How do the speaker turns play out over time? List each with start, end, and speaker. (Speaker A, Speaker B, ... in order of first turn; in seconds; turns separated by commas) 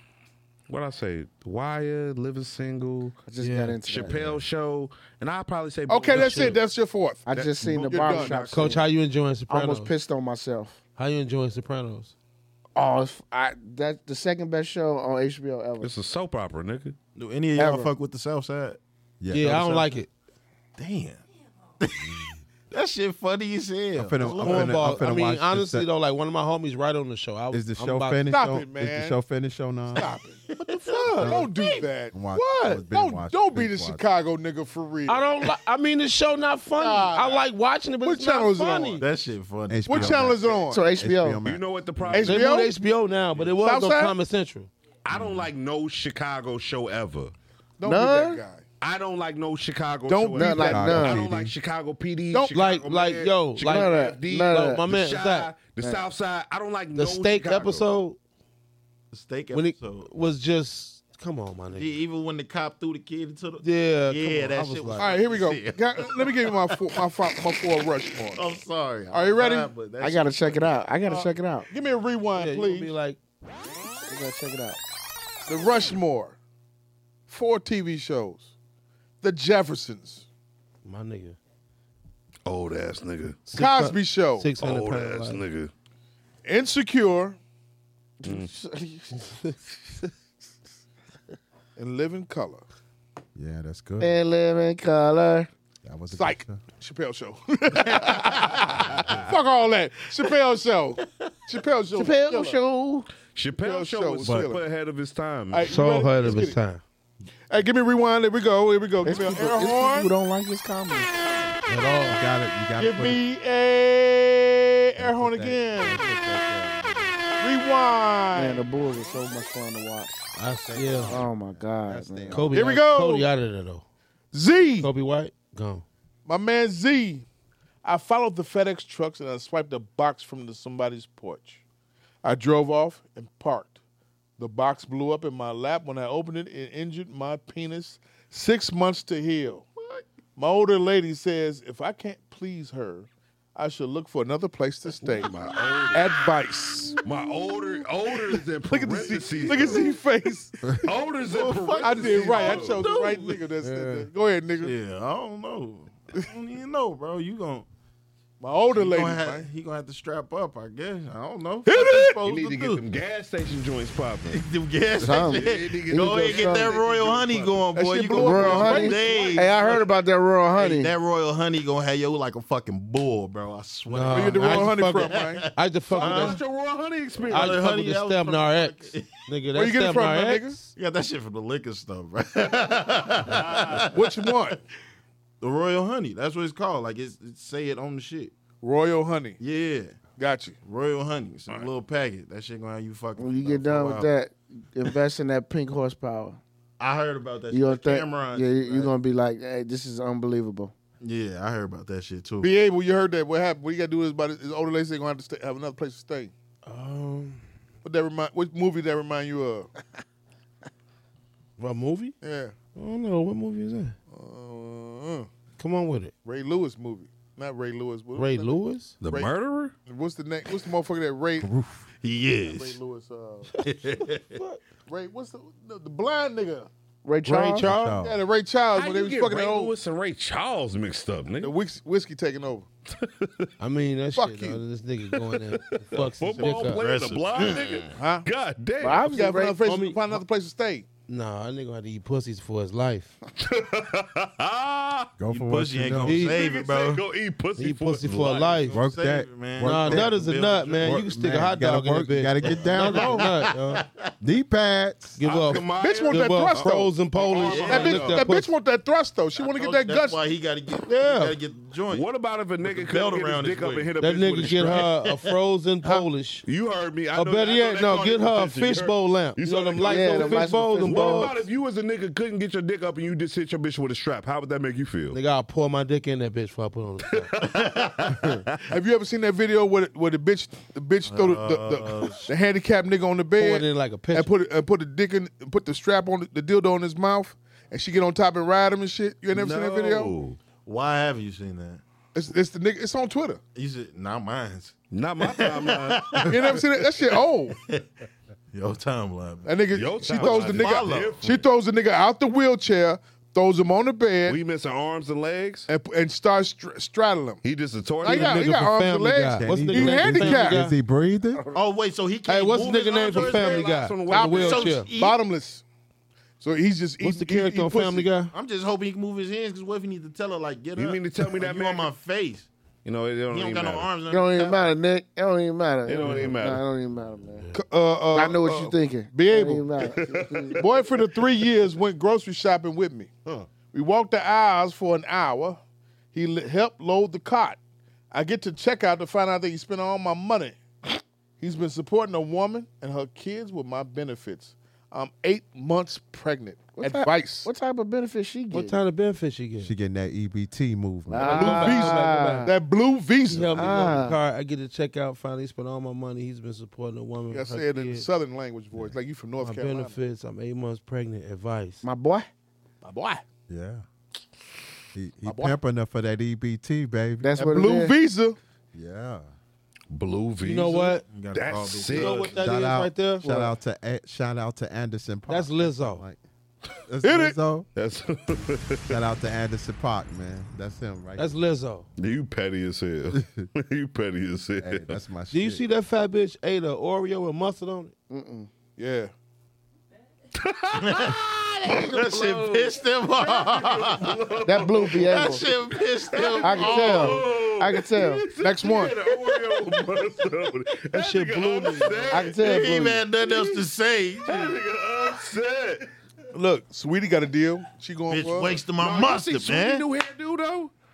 Speaker A: 0.7-3.2, Speaker B: 3.2-4.2, Speaker C: 3.4-3.8, Speaker A: 3.8-6.6, Speaker D: 4.1-4.4, Speaker E: 5.9-8.8, Speaker C: 6.1-6.6, Speaker B: 7.3-8.9, Speaker A: 7.3-8.5, Speaker C: 8.5-9.9, Speaker B: 9.5-10.8, Speaker C: 11.0-12.1, Speaker B: 12.8-15.9, Speaker A: 15.8-17.0, Speaker F: 17.1-18.8, Speaker B: 17.6-17.9, Speaker D: 19.2-19.9, Speaker C: 19.3-20.1, Speaker F: 20.8-21.2, Speaker F: 21.8-25.0, Speaker D: 22.0-22.4, Speaker D: 23.9-25.9, Speaker C: 24.2-28.3, Speaker D: 27.5-30.1, Speaker E: 28.3-29.2, Speaker E: 29.9-35.3, Speaker F: 30.5-31.8, Speaker D: 31.1-31.5, Speaker D: 32.1-34.0, Speaker C: 35.1-39.0, Speaker E: 36.8-37.4, Speaker E: 38.0-39.0, Speaker F: 39.0-40.4, Speaker D: 39.7-41.6, Speaker E: 39.9-40.8, Speaker B: 40.7-41.4, Speaker A: 41.4-42.4, Speaker E: 42.1-42.7, Speaker C: 42.2-44.7, Speaker E: 43.6-44.1, Speaker A: 45.0-47.3, Speaker E: 47.8-48.6, Speaker B: 47.8-48.4, Speaker A: 48.8-57.8, Speaker E: 50.1-51.2, Speaker B: 50.4-51.2, Speaker D: 50.7-51.5, Speaker C: 52.5-55.5, Speaker B: 53.6-54.8, Speaker C: 57.0-58.2, Speaker F: 59.1-60.1, Speaker C: 59.5-62.0, Speaker F: 61.7-67.1, Speaker C: 63.6-65.1, Speaker E: 65.0-68.5, Speaker F: 68.3-70.7, Speaker E: 69.1-69.7, Speaker B: 70.0-71.7, Speaker E: 71.0-72.9, Speaker C: 72.3-73.2, Speaker B: 74.1-74.8, Speaker E: 75.5-76.4, Speaker E: 77.3-78.5, Speaker E: 79.2-80.2, Speaker C: 80.8-81.4, Speaker A: 82.5-83.4, Speaker C: 83.5-85.4, Speaker E: 83.5-84.5, Speaker A: 84.6-85.7, Speaker E: 86.4-87.4, Speaker B: 88.2-89.5, Speaker A: 88.2-88.5, Speaker E: 91.8-92.6, Speaker D: 93.3-94.1, Speaker B: 94.0-95.5, Speaker D: 95.8-96.6, Speaker E: 96.1-102.5, Speaker F: 97.8-98.9, Speaker B: 101.9-103.1, Speaker A: 103.3-105.7, Speaker E: 103.6-104.6, Speaker F: 104.2-104.5, Speaker E: 105.5-106.6, Speaker C: 105.6-106.8, Speaker E: 107.5-110.1, Speaker B: 109.0-111.2, Speaker C: 111.7-112.2, Speaker D: 112.1-113.2, Speaker E: 112.8-116.0, Speaker D: 115.0-117.1, Speaker E: 117.4-118.6, Speaker B: 118.3-120.3, Speaker C: 120.3-121.2, Speaker D: 120.7-122.7, Speaker B: 121.1-122.5, Speaker C: 122.3-123.8, Speaker E: 122.5-123.2, Speaker E: 124.3-124.9, Speaker C: 124.8-125.8, Speaker E: 126.3-127.2, Speaker E: 127.8-131.6, Speaker E: 132.2-133.8, Speaker E: 134.4-139.7, Speaker F: 139.8-140.0, Speaker E: 140.3-145.3, Speaker A: 145.0-146.1, Speaker E: 145.9-147.0, Speaker A: 147.0-149.9, Speaker E: 148.6-150.8, Speaker A: 150.8-152.8, Speaker F: 151.2-153.3, Speaker E: 151.8-154.8, Speaker C: 153.6-154.1, Speaker F: 154.6-157.7, Speaker E: 158.4-159.5, Speaker F: 158.7-162.8, Speaker E: 161.6-162.2, Speaker A: 162.2-164.4, Speaker F: 164.3-169.7, Speaker B: 165.0-166.8, Speaker A: 165.1-167.6, Speaker E: 167.7-169.4, Speaker B: 168.1-170.9, Speaker F: 170.5-176.4, Speaker C: 173.9-176.4, Speaker E: 174.1-175.4, Speaker A: 176.0-177.6, Speaker F: 177.3-179.3, Speaker C: 177.3-180.7, Speaker E: 179.5-180.6, Speaker F: 180.7-184.6, Speaker A: 183.2-183.8, Speaker E: 183.9-184.6, Speaker F: 185.4-188.3, Speaker E: 188.6-189.4, Speaker F: 189.4-190.0, Speaker E: 190.2-190.6, Speaker F: 190.6-194.1, Speaker B: 193.2-196.4, Speaker F: 196.8-198.9, Speaker B: 197.5-200.7, Speaker F: 201.0-202.5, Speaker E: 202.4-206.3, Speaker C: 206.6-207.4, Speaker E: 207.8-209.7, Speaker C: 211.6-212.1, Speaker E: 212.2-212.5, Speaker C: 212.7-213.9, Speaker E: 214.1-215.3, Speaker C: 215.6-216.1, Speaker E: 216.2-219.3, Speaker C: 218.2-218.9, Speaker A: 219.0-219.7, Speaker E: 219.8-221.5, Speaker D: 221.4-221.8, Speaker F: 222.0-222.8, Speaker E: 222.4-223.5, Speaker F: 223.6-224.4, Speaker C: 224.3-224.6, Speaker E: 224.9-226.7, Speaker B: 227.0-227.7, Speaker C: 227.2-228.0, Speaker D: 227.6-228.2, Speaker E: 228.0-229.7, Speaker A: 228.7-231.5, Speaker E: 231.4-232.7, Speaker A: 232.9-233.5, Speaker C: 233.6-236.8, Speaker E: 234.1-234.6, Speaker A: 235.1-239.1, Speaker F: 236.3-238.0, Speaker E: 237.9-238.3, Speaker B: 238.8-239.6, Speaker E: 239.1-240.9, Speaker C: 239.6-240.2, Speaker C: 241.1-243.2, Speaker A: 243.4-245.1, Speaker D: 245.2-246.2, Speaker F: 245.3-247.0, Speaker C: 246.0-246.5, Speaker A: 246.2-248.7, Speaker C: 247.6-248.8, Speaker F: 248.7-251.1, Speaker D: 248.7-250.2, Speaker C: 249.6-253.8, Speaker D: 250.8-253.5, Speaker F: 252.4-254.1, Speaker D: 254.2-255.2, Speaker C: 255.2-258.5, Speaker A: 255.2-258.2, Speaker E: 255.7-260.2, Speaker F: 257.4-258.1, Speaker F: 259.4-262.1, Speaker C: 260.9-261.4, Speaker A: 261.9-264.9, Speaker F: 262.6-265.3, Speaker C: 264.0-266.4, Speaker A: 266.4-275.2, Speaker C: 267.1-271.4, Speaker B: 269.8-271.4, Speaker C: 275.1-277.3, Speaker A: 277.1-278.6, Speaker F: 277.5-278.2, Speaker E: 278.7-290.1, Speaker F: 281.1-282.3, Speaker C: 283.4-284.3, Speaker A: 289.3-290.4, Speaker F: 290.6-291.8, Speaker E: 292.1-293.4, Speaker F: 293.5-297.9, Speaker A: 294.9-296.3, Speaker E: 296.2-297.6, Speaker F: 298.5-299.5, Speaker E: 299.4-304.4, Speaker A: 299.7-301.4, Speaker F: 300.1-301.2, Speaker A: 304.3-305.7, Speaker E: 305.7-307.4, Speaker A: 307.4-308.4, Speaker E: 308.0-310.6, Speaker C: 308.0-310.8, Speaker D: 309.4-311.4, Speaker F: 311.5-313.7, Speaker C: 312.3-314.9, Speaker A: 312.5-314.7, Speaker E: 314.1-315.6, Speaker F: 314.2-315.2, Speaker E: 316.4-318.1, Speaker C: 317.0-318.3, Speaker F: 318.3-322.5, Speaker A: 320.8-321.9, Speaker A: 322.8-323.9, Speaker F: 323.3-324.6, Speaker B: 324.1-327.5, Speaker A: 325.9-326.6, Speaker C: 326.0-326.4, Speaker E: 327.5-330.0, Speaker B: 328.1-330.6, Speaker A: 329.8-330.5, Speaker E: 330.5-333.1, Speaker E: 333.7-335.6, Speaker E: 336.1-337.6, Speaker E: 338.1-347.5, Speaker B: 346.8-348.8, Speaker C: 348.5-349.7, Speaker D: 349.6-351.7, Speaker B: 351.1-352.5, Speaker C: 351.1-352.5, Speaker E: 351.3-354.0, Speaker C: 353.3-358.1, Speaker B: 353.5-354.2, Speaker E: 357.3-359.9, Speaker C: 359.4-361.8, Speaker B: 361.8-362.3, Speaker E: 362.8-363.2, Speaker D: 363.5-363.8, Speaker D: 364.9-367.3, Speaker E: 365.2-365.6, Speaker B: 367.2-367.9, Speaker E: 367.4-368.4, Speaker D: 368.7-369.3, Speaker A: 369.9-372.3, Speaker C: 370.4-371.0, Speaker F: 371.0-372.4, Speaker C: 371.9-373.3, Speaker D: 372.3-376.2, Speaker B: 373.2-373.5, Speaker C: 375.3-376.0, Speaker D: 376.9-377.7, Speaker E: 377.0-377.3, Speaker A: 377.7-379.0, Speaker D: 378.9-381.4, Speaker C: 381.2-381.9, Speaker A: 382.0-384.9, Speaker D: 383.1-383.5, Speaker D: 384.6-385.6, Speaker C: 385.3-387.9, Speaker B: 388.1-388.5, Speaker E: 388.8-389.1, Speaker A: 390.3-402.5, Speaker F: 390.8-397.2, Speaker B: 394.4-395.4, Speaker B: 396.4-398.2, Speaker E: 398.4-399.1, Speaker C: 400.9-402.3, Speaker B: 402.1-403.0, Speaker F: 402.3-404.6, Speaker A: 403.2-403.6, Speaker A: 404.2-405.9, Speaker E: 406.3-408.6, Speaker F: 408.1-409.8, Speaker A: 408.8-410.7